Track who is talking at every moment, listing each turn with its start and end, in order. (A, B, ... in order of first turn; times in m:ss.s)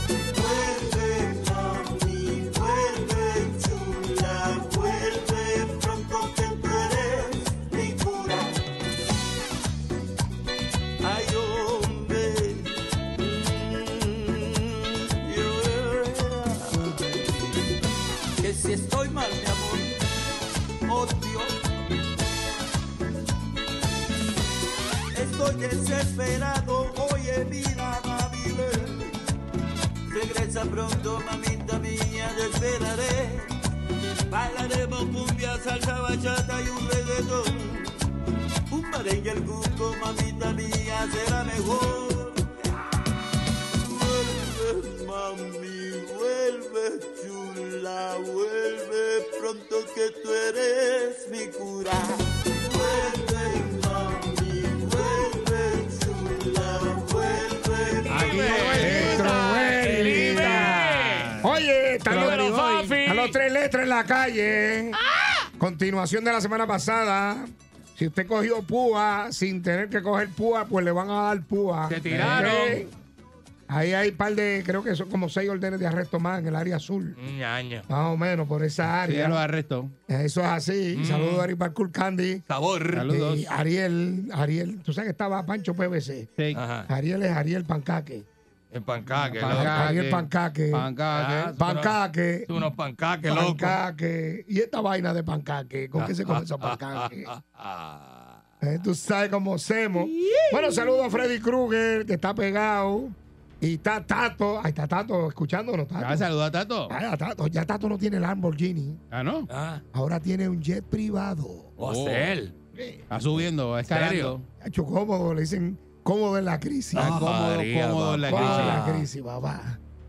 0:00.4-0:08.4 A
0:11.0-0:12.6 A
0:13.2-0:14.3 A
0:15.3-0:17.2 A
0:18.4-0:19.9 A
0:20.9-0:21.5 A
0:25.2-0:28.9 A
0:30.1-0:33.4 A
0:34.3-0:37.5 A
0:38.7-0:42.3 A
0:43.8-0:52.1 A
0:52.7-0:58.8 A
0:58.0-1:01.4 B
0:58.1-0:59.1 C
0:58.4-1:00.8 D
1:00.0-1:01.5 C
1:01.4-1:05.0 D
1:02.1-1:03.4 B
1:05.0-1:05.3 B
1:05.6-1:12.9 D
1:11.8-1:12.8 B
1:13.7-1:17.2 D
1:17.2-1:17.9 B
1:17.9-1:19.4 D
1:19.0-1:19.9 C
1:20.1-1:22.4 D
1:20.9-1:21.5 B
1:22.5-1:23.1 B
1:22.9-1:23.5 C
1:23.1-1:26.3 D
1:26.4-1:26.6 C
1:26.5-1:26.9 B
1:26.9-1:28.2 D
1:28.7-1:30.3 B
1:29.2-1:31.6 C
1:29.4-1:30.9 D
1:31.1-1:33.8 B
1:31.6-1:32.5 D
1:33.3-1:37.3 D
1:35.9-1:38.4 B
1:38.6-1:46.3 D
1:40.2-1:40.8 B
1:46.0-1:46.9 C
1:46.9-1:49.0 D
1:49.1-1:49.5 C
1:49.5-1:49.8 B
1:49.9-1:51.7 D
1:51.8-1:52.5 B
1:51.8-1:52.3 C
1:52.7-1:53.1 D
1:53.1-1:54.4 C
1:53.8-1:54.3 B
1:54.6-1:57.2 D
1:56.9-1:58.8 C
1:56.9-1:59.1 B
1:58.2-1:59.8 D